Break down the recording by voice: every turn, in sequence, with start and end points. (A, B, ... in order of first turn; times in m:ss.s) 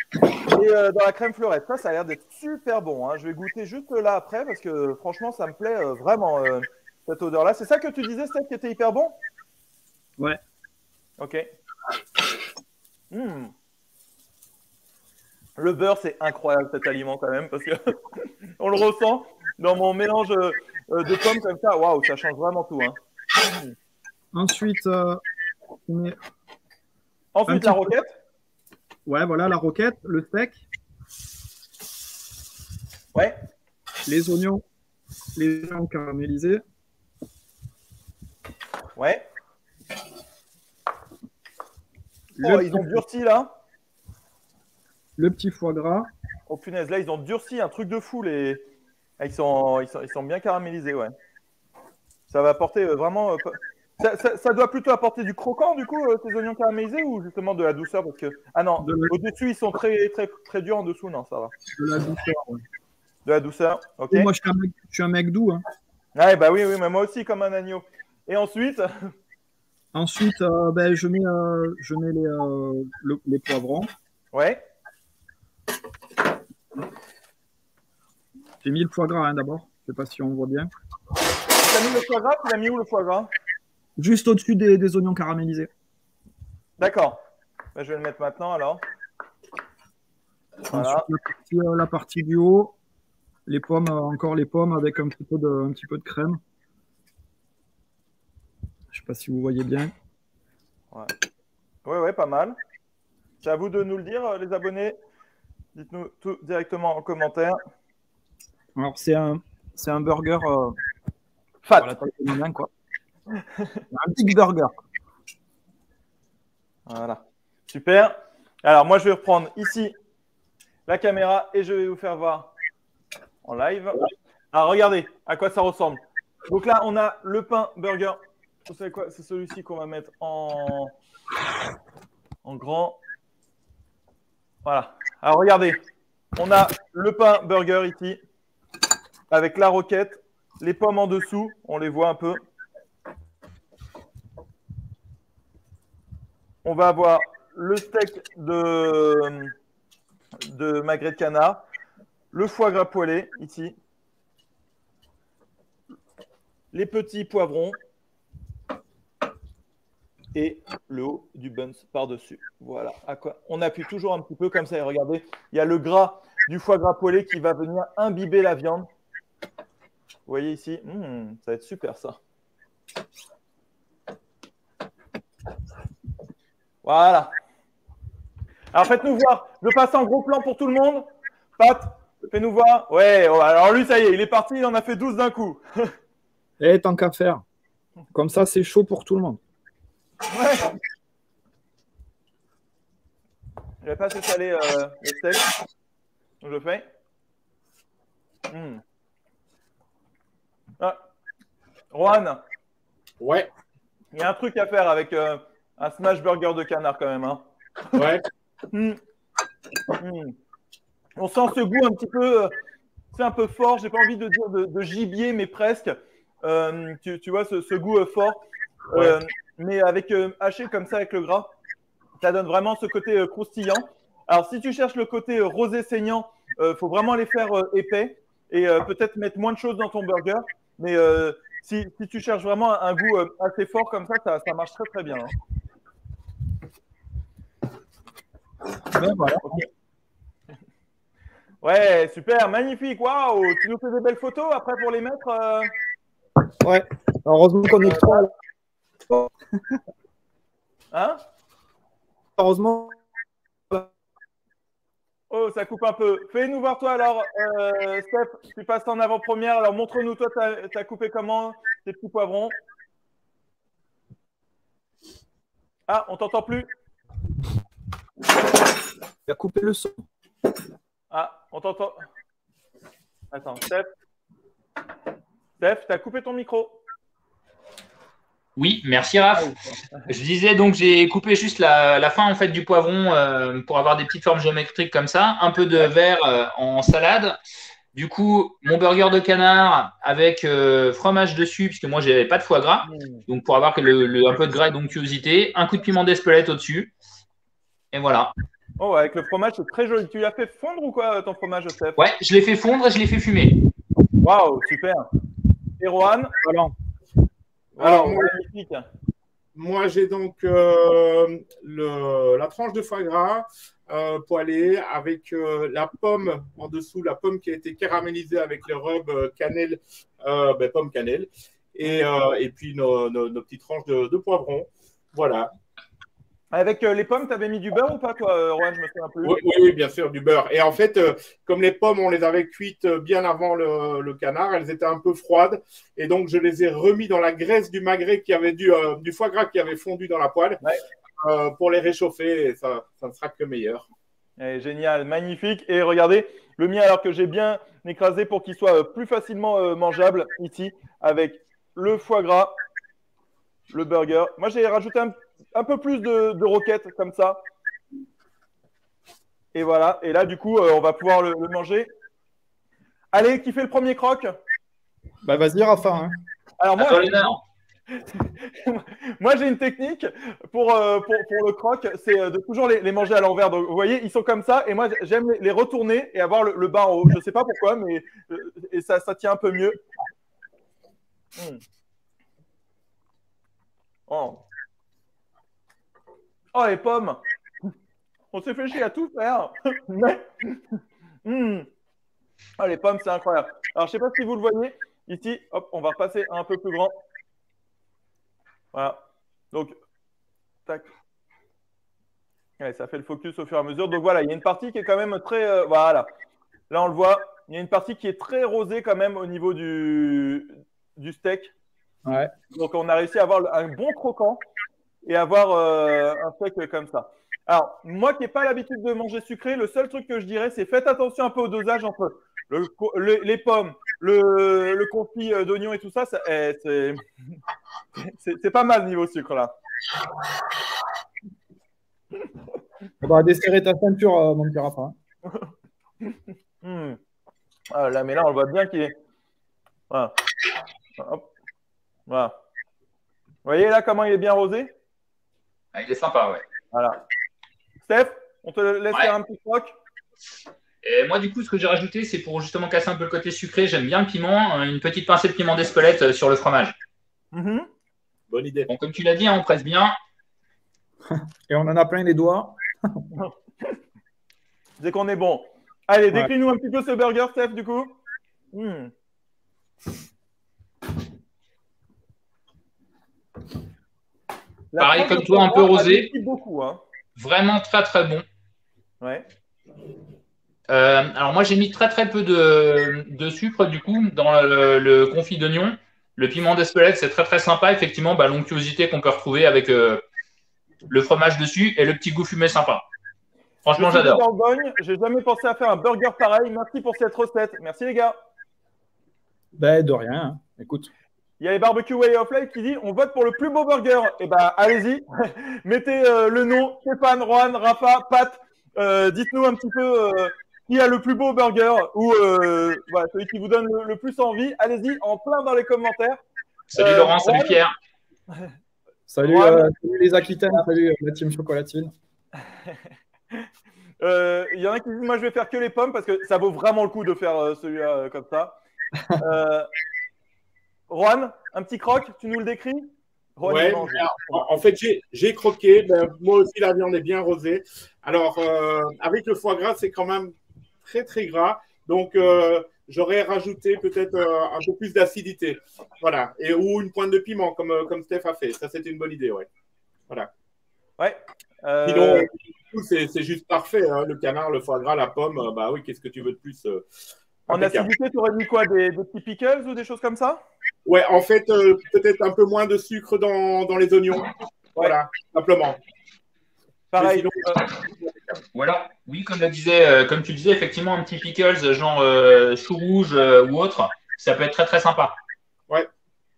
0:00.5-0:09.2 A
0:11.2-0:11.4 A
0:13.1-0:13.5 A
0:15.6-0:23.7 A
0:24.3-0:25.2 B
0:25.8-0:26.2 B
0:27.3-0:28.1 A
0:27.4-0:27.9 B
0:29.0-0:30.6 B
0:34.0-0:34.6 B
0:35.3-0:36.6 B
0:39.0-0:39.2 A
0:42.3-0:43.0 B
0:42.4-0:43.5 A
0:45.2-0:46.1 B
0:46.5-0:48.6 A
0:49.2-0:51.1 A
0:52.3-1:01.5 A
0:58.8-0:59.1 B
1:01.7-1:02.6 B
1:03.2-1:04.3 A
1:04.1-1:05.6 B
1:06.1-1:09.1 A
1:09.9-1:13.9 B
1:14.3-1:14.6 A
1:18.6-1:20.7 B
1:21.6-1:23.3 A
1:24.0-1:25.7 B
1:26.8-1:27.2 A
1:27.7-1:28.8 A
1:30.7-1:32.7 B
1:30.7-1:31.1 A
1:33.4-1:36.4 B
1:38.9-1:39.9 B
1:41.8-1:42.6 A
1:43.4-1:45.0 A
1:45.7-1:47.6 A
1:48.8-1:50.8 B
1:51.6-1:52.0 A
1:51.8-1:52.7 B
1:53.5-1:53.8 A
1:53.9-1:54.8 B
1:56.9-1:59.9 A
2:00.9-2:02.5 A
2:03.4-2:10.9 A
2:12.4-2:13.0 A
2:14.6-2:15.8 A
2:16.4-2:18.2 A
2:19.3-2:22.4 A
2:26.6-2:29.5 A
2:30.5-2:31.6 A
2:32.3-2:33.8 A
2:36.7-2:37.8 A
2:40.3-2:48.9 A
2:50.3-2:52.2 A
2:56.8-2:57.3 A
2:58.7-3:05.9 A
3:06.6-3:07.4 B
3:08.1-3:09.4 B
3:10.3-3:10.7 A
3:13.8-3:15.4 A
3:16.4-3:16.8 A
3:18.5-3:18.8 A
3:21.9-3:22.4 A
3:23.2-3:23.5 C
3:24.1-3:28.0 A
3:27.9-3:28.2 C
3:28.7-3:29.0 A
3:30.0-3:30.3 A
3:31.2-3:32.5 A
3:33.1-3:41.5 A
3:42.2-3:55.3 A
3:58.9-3:59.6 B
4:01.6-4:05.7 A
4:06.6-4:08.3 B
4:09.0-4:09.8 B
4:10.9-4:11.2 A
4:12.4-4:13.0 B
4:15.3-4:22.5 A
4:25.9-4:26.7 A
4:29.2-4:30.0 B
4:31.1-4:32.0 A
4:33.3-4:33.9 A
4:35.6-4:36.8 A
4:38.6-4:39.5 D
4:40.1-4:47.4 D
4:47.9-4:56.9 D
4:52.8-4:53.2 A
4:57.9-4:58.3 D
4:58.8-5:02.0 A
5:02.0-5:03.5 D
5:04.2-5:05.1 A
5:05.8-5:06.3 A
5:06.4-5:06.7 B
5:07.8-5:08.8 A
5:07.8-5:08.4 C
5:09.5-5:25.5 C
5:26.5-5:29.4 A
5:29.2-5:40.6 C
5:41.2-5:43.9 C
5:44.4-5:52.6 A
5:53.7-5:57.4 A
5:59.5-6:01.9 A
6:03.1-6:04.4 A
6:05.2-6:06.2 B
6:06.6-6:07.3 A
6:06.8-6:07.4 D
6:08.1-6:19.8 A
6:21.4-6:21.6 A
6:24.1-6:24.4 A
6:26.5-6:27.2 A
6:28.3-6:31.7 A
6:32.6-6:37.0 A
6:38.7-6:39.0 A
6:39.5-6:39.8 A
6:42.6-6:46.1 A
6:46.7-6:51.5 A
6:52.0-6:52.3 B
6:52.5-6:54.4 A
6:55.0-7:07.0 A
7:08.0-7:09.5 A
7:13.0-7:14.9 B
7:16.0-7:17.0 A
7:17.7-7:18.9 A
7:21.0-7:21.2 A
7:22.1-7:22.3 A
7:23.4-7:24.7 A
7:25.7-7:26.4 D
7:26.7-7:27.0 A
7:27.8-7:29.7 A
7:30.8-7:36.7 D
7:37.3-7:37.7 A
7:38.3-7:38.7 C
7:38.7-7:40.0 D
7:41.1-7:43.0 B
7:43.1-7:43.7 A
7:44.8-7:47.9 A
7:48.5-7:48.9 A
7:54.7-7:56.8 A
7:54.8-7:56.1 D
7:57.2-7:58.2 D
8:00.7-8:10.0 D
8:10.9-8:12.8 D
8:13.6-8:14.2 D
8:13.7-8:18.2 A
8:19.5-8:20.9 B
8:21.4-8:36.2 A
8:36.7-8:37.7 D
8:36.8-8:37.6 A
8:39.1-8:41.9 B
8:39.2-8:39.7 A
8:42.5-8:43.5 A
8:44.0-8:48.6 A
8:49.2-8:49.7 A
8:50.9-8:54.5 A
8:53.4-9:09.5 C
9:11.0-9:12.3 A
9:11.8-9:16.8 C
9:17.5-9:17.9 C
9:17.5-9:20.4 A
9:20.8-9:25.8 C
9:26.9-9:27.6 A
9:27.0-9:28.4 C
9:28.5-9:35.2 D